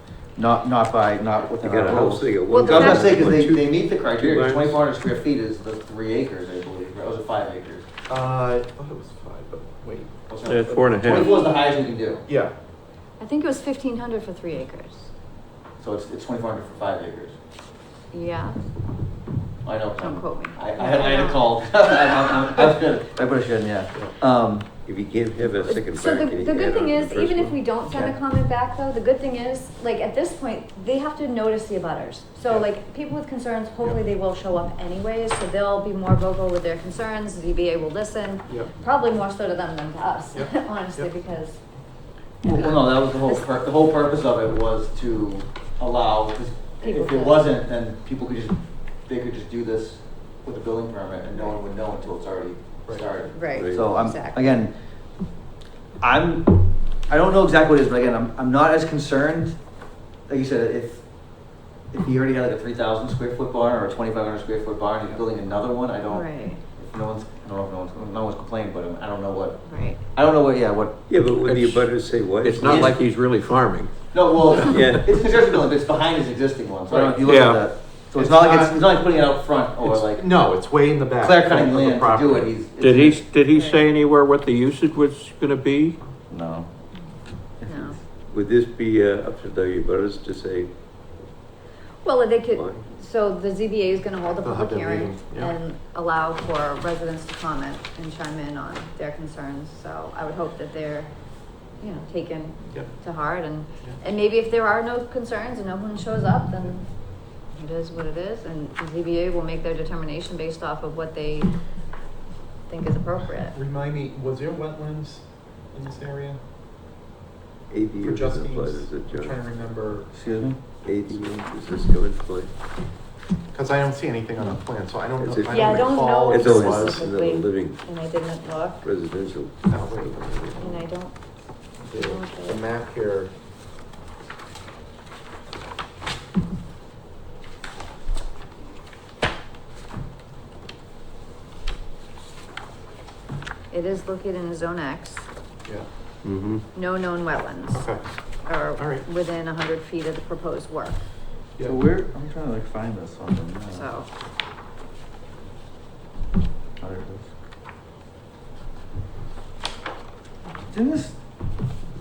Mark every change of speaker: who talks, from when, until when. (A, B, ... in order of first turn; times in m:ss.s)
0:00.4-0:07.8 A
0:01.6-0:04.8 B
0:02.5-0:03.2 C
0:08.1-0:11.0 D
0:10.3-0:12.2 A
0:10.4-0:11.4 E
0:11.0-0:11.8 C
0:12.2-0:12.5 D
0:13.2-0:15.1 C
0:15.8-0:17.3 A
0:18.1-0:18.6 C
0:19.6-0:24.7 A
0:20.0-0:22.7 C
0:24.8-0:27.6 B
0:25.6-0:41.6 C
0:32.4-0:32.7 D
0:38.5-0:38.7 D
0:40.3-0:41.1 D
0:42.4-0:43.4 C
0:42.5-0:55.3 A
0:46.8-0:47.4 C
0:52.8-0:53.1 D
0:53.3-0:54.6 C
0:53.5-0:53.9 B
0:56.0-1:11.0 A
1:06.1-1:06.6 C
1:09.6-1:10.0 C
1:11.1-1:13.0 B
1:11.4-1:13.9 E
1:14.1-1:20.5 A
1:14.6-1:15.0 E
1:14.6-1:15.1 B
1:17.1-1:17.7 E
1:18.1-1:19.0 D
1:19.8-1:22.6 D
1:21.2-1:23.2 A
1:22.8-1:26.0 E
1:23.5-1:23.8 C
1:26.3-1:26.7 A
1:27.6-1:28.0 A
1:27.6-1:28.0 C
1:28.3-1:30.8 B
1:32.0-1:51.5 C
1:32.5-1:32.9 B
1:34.4-1:35.6 D
1:52.7-1:53.6 C
1:53.5-1:56.4 D
1:57.7-1:59.4 B
1:58.0-2:00.1 D
2:00.1-2:00.5 A
2:00.8-2:02.5 B
2:03.5-2:07.0 D
2:05.2-2:07.9 B
2:05.5-2:08.8 C
2:08.8-2:10.2 B
2:09.6-2:10.9 D
2:10.6-2:11.2 C
2:11.8-2:12.6 C
2:11.8-2:13.3 D
2:23.7-2:25.3 C
2:26.2-2:26.6 B
2:26.7-2:27.9 C
2:27.7-2:28.0 D
2:28.4-2:31.1 C
2:28.7-2:29.0 D
2:31.6-2:33.9 A
2:33.7-2:34.1 C
2:36.8-2:37.3 A
2:40.7-2:41.2 A